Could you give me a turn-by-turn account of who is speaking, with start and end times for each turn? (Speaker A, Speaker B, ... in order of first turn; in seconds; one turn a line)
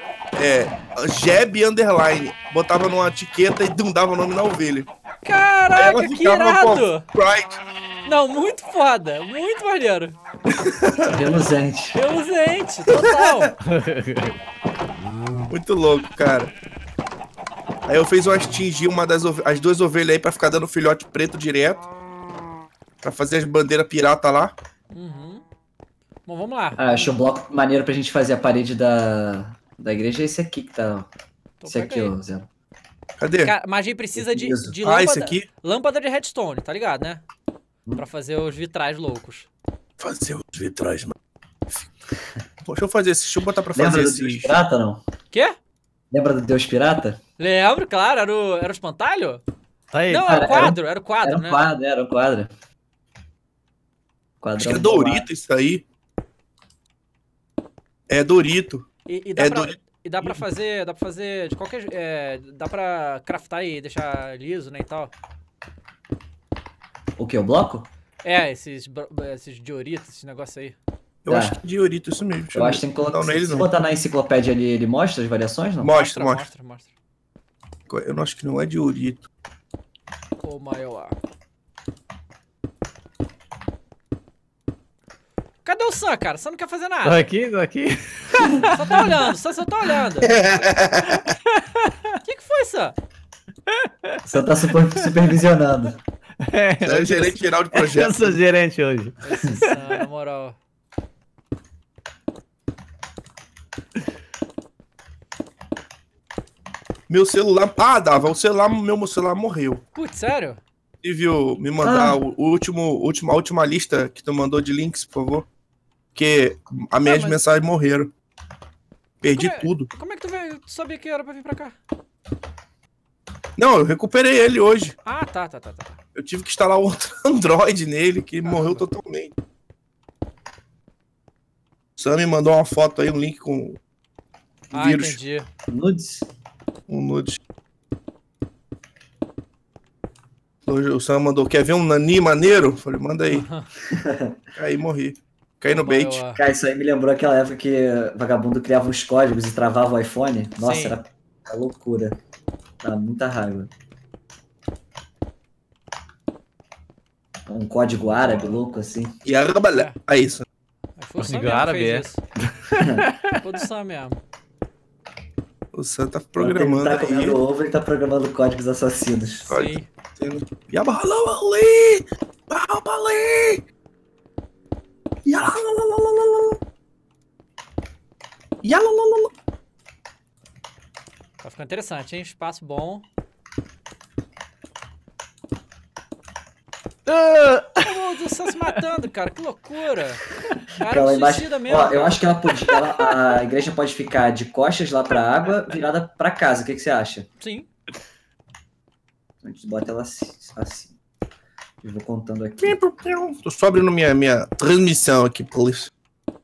Speaker A: 0.4-4.9
Speaker B: 5.2-7.0
Speaker A: 5.8-7.5
Speaker B: 8.1-10.2
Speaker A: 10.5-11.4
Speaker C: 11.1-12.0
Speaker B: 11.9-13.6
Speaker A: 12.9-13.5
Speaker D: 13.7-14.3
Speaker A: 15.5-16.5
Speaker A: 17.9-21.8
Speaker A: 23.0-24.5
Speaker B: 24.9-25.4
Speaker B: 26.3-27.1
Speaker C: 26.8-31.1
Speaker B: 31.6-32.1
Speaker C: 31.7-32.5
Speaker A: 33.2-33.5
Speaker B: 33.4-37.2
Speaker C: 34.1-34.7
Speaker A: 34.8-35.5
Speaker B: 38.0-39.5
Speaker A: 40.0-41.1
Speaker A: 42.6-44.5
Speaker C: 43.8-45.0
Speaker B: 45.3-45.6
Speaker C: 46.1-47.2
Speaker B: 47.4-49.4
Speaker D: 49.9-50.3
Speaker B: 50.1-51.7
Speaker C: 50.3-52.5
Speaker C: 54.4-55.3
Speaker A: 54.6-55.8
Speaker A: 58.1-60.4
Speaker B: 59.1-65.1
Speaker C: 67.2-67.9
Speaker B: 68.2-70.8
Speaker A: 71.2-73.7
Speaker C: 71.3-71.6
Speaker C: 72.5-76.0
Speaker A: 75.8-76.5
Speaker B: 75.9-76.9
Speaker A: 77.9-79.3
Speaker B: 80.4-81.2
Speaker B: 85.7-87.3
Speaker D: 87.0-89.3
Speaker B: 88.7-90.4
Speaker A: 90.2-91.3
Speaker D: 91.1-92.1
Speaker B: 92.2-93.0
Speaker D: 93.7-94.2
Speaker C: 94.2-96.0
Speaker D: 96.4-99.8
Speaker A: 96.8-98.4
Speaker B: 99.2-100.6
Speaker A: 107.1-109.8
Speaker B: 110.0-110.6
Speaker A: 111.0-115.5
Speaker C: 111.8-112.2
Speaker A: 116.2-118.1
Speaker B: 117.0-117.4
Speaker A: 119.2-119.9
Speaker B: 119.3-121.8
Speaker A: 123.6-125.0
Speaker B: 125.0-126.0
Speaker A: 126.2-129.3
Speaker B: 128.4-128.8
Speaker A: 132.0-133.8
Speaker A: 134.7-135.2
Speaker B: 134.7-135.5
Speaker C: 135.7-136.3
Speaker A: 136.9-137.4
Speaker A: 140.7-143.5
Speaker B: 143.3-143.7
Speaker C: 143.8-144.4
Speaker A: 144.6-146.2
Speaker B: 145.7-146.4
Speaker C: 146.3-152.2
Speaker B: 150.6-151.0
Speaker C: 152.8-153.7
Speaker C: 157.5-159.2
Speaker A: 159.2-160.5
Speaker B: 161.0-162.2
Speaker D: 161.2-162.1
Speaker D: 162.7-163.3
Speaker C: 162.8-163.1
Speaker B: 163.4-164.2
Speaker A: 165.7-167.4
Speaker C: 166.4-169.4
Speaker B: 169.2-169.9
Speaker A: 169.5-173.6
Speaker A: 175.3-176.6
Speaker A: 178.6-179.3
Speaker B: 181.4-183.1
Speaker D: 187.1-187.9
Speaker B: 187.8-190.2
Speaker B: 190.8-192.2
Speaker C: 190.8-197.3
Speaker D: 192.5-193.1
Speaker B: 197.4-197.7
Speaker C: 199.4-201.0
Speaker C: 201.8-202.8
Speaker A: 202.6-205.9